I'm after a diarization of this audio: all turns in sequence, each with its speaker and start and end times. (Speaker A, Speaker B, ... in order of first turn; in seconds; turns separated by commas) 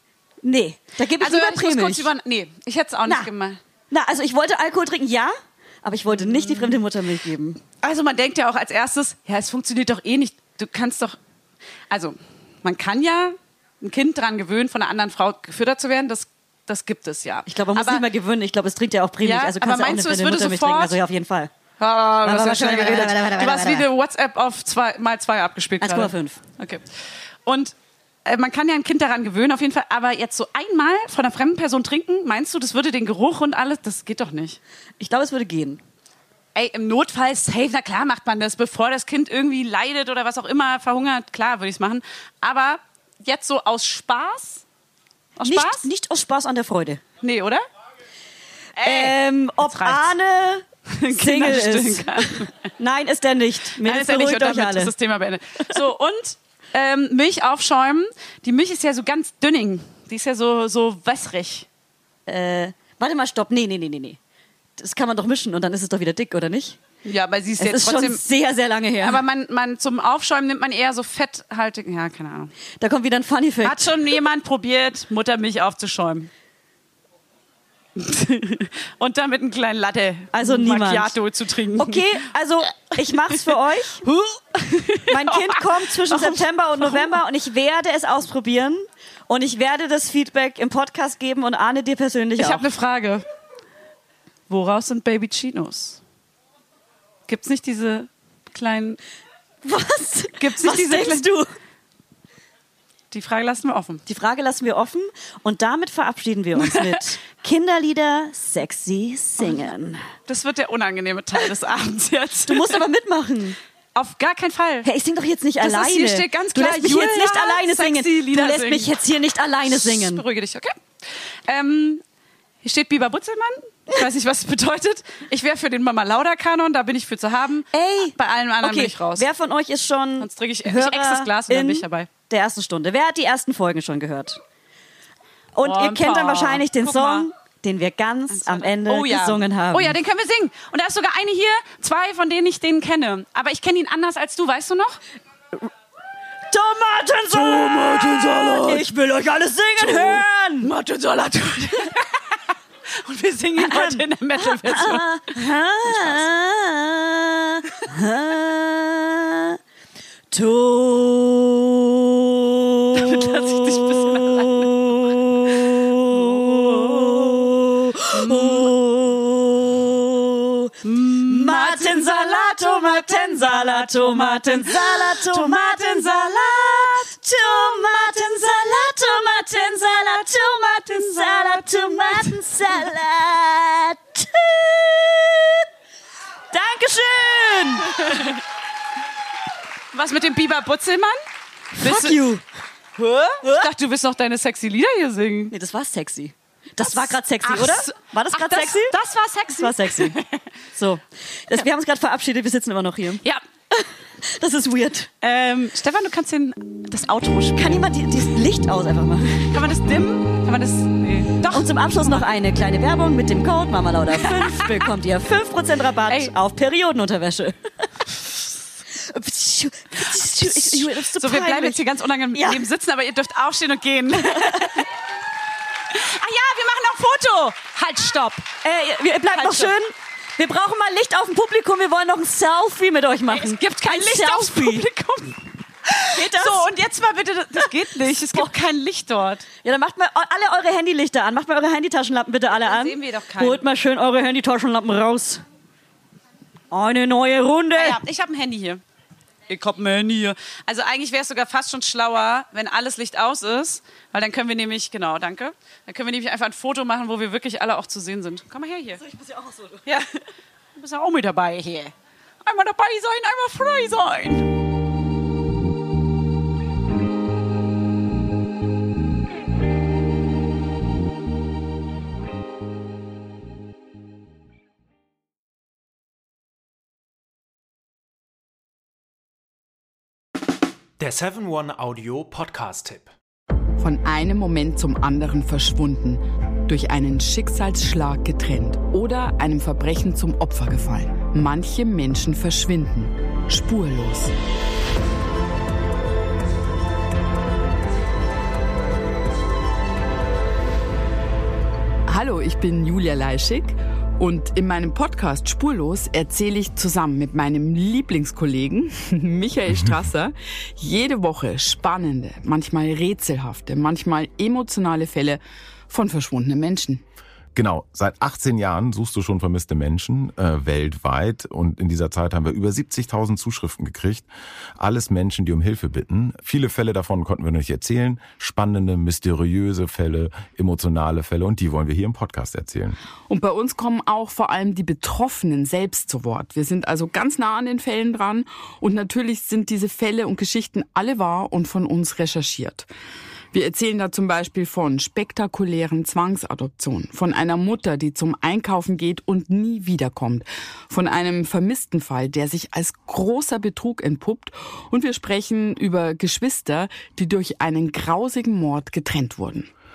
Speaker A: 0.4-2.1, Speaker B: 1.2-3.6, Speaker A: 3.9-7.6, Speaker B: 6.1-6.8, Speaker B: 7.8-11.2, Speaker B: 11.9-18.0, Speaker A: 17.5-21.5, Speaker B: 19.2-21.0, Speaker B: 21.8-26.8, Speaker A: 22.2-23.9, Speaker A: 25.8-26.4, Speaker B: 27.4-27.7, Speaker B: 28.2-34.6, Speaker A: 35.0-35.8, Speaker B: 36.5-44.6, Speaker B: 45.4-45.9, Speaker A: 45.4-47.0, Speaker B: 47.2-47.6, Speaker B: 48.8-50.1, Speaker A: 48.8-54.9, Speaker B: 50.9-52.6, Speaker B: 53.8-61.7, Speaker A: 62.3-64.2, Speaker A: 64.8-66.8, Speaker B: 67.0-68.2, Speaker A: 67.6-69.2, Speaker B: 69.0-72.5, Speaker A: 72.8-74.2, Speaker B: 73.6-76.3, Speaker B: 78.0-82.3, Speaker A: 80.3-81.1, Speaker A: 81.7-84.0, Speaker B: 83.0-87.2, Speaker A: 85.1-92.6, Speaker B: 92.4-93.2, Speaker B: 94.5-96.0, Speaker B: 97.3-99.0, Speaker A: 99.6-101.5, Speaker B: 100.4-101.2, Speaker B: 103.1-104.0, Speaker A: 104.1-110.0, Speaker B: 106.5-107.0, Speaker B: 110.2-112.8, Speaker A: 112.5-113.6, Speaker B: 113.9-114.9, Speaker A: 114.8-120.2, Speaker B: 115.6-118.9, Speaker B: 119.7-120.7, Speaker B: 121.5-122.0, Speaker B: 122.6-129.2, Speaker A: 127.7-134.4, Speaker B: 130.2-132.1, Speaker A: 135.5-139.9, Speaker B: 135.6-137.3, Speaker B: 138.3-145.0, Speaker A: 146.5-150.7, Speaker B: 147.3-148.8, Speaker B: 149.8-152.3, Speaker B: 153.0-155.2, Speaker A: 153.6-159.6, Speaker B: 155.8-156.2, Speaker A: 160.3-185.6, Speaker B: 162.9-165.1, Speaker B: 166.1-166.8, Speaker B: 168.1-168.7, Speaker B: 170.8-177.1, Speaker B: 180.9-182.4, Speaker A: 186.5-188.4, Speaker B: 189.9-191.2, Speaker A: 191.7-192.4, Speaker B: 191.8-192.3, Speaker B: 193.0-195.5, Speaker A: 193.4-193.7, Speaker A: 195.5-198.9, Speaker B: 196.8-200.3, Speaker A: 199.6-200.2, Speaker A: 200.7-205.1, Speaker B: 205.2-207.9, Speaker A: 207.6-209.5, Speaker B: 209.5-212.2, Speaker A: 211.5-217.9, Speaker B: 214.1-214.9, Speaker A: 218.9-221.8, Speaker B: 220.0-224.9, Speaker A: 222.3-222.6, Speaker A: 224.2-224.8, Speaker B: 225.9-228.5, Speaker A: 228.6-234.8, Speaker B: 229.3-229.7, Speaker B: 233.3-239.5, Speaker A: 236.1-236.7, Speaker A: 238.2-238.5, Speaker A: 239.6-245.4, Speaker B: 242.5-243.6, Speaker A: 246.7-248.0, Speaker B: 247.7-248.8, Speaker B: 249.5-259.0, Speaker A: 259.0-259.9, Speaker B: 259.9-260.1, Speaker B: 260.8-261.9, Speaker B: 262.4-264.5, Speaker C: 281.0-283.1, Speaker D: 283.8-294.3, Speaker D: 302.1-317.0, Speaker E: 317.5-333.0, Speaker D: 333.3-342.9, Speaker D: 343.5-359.7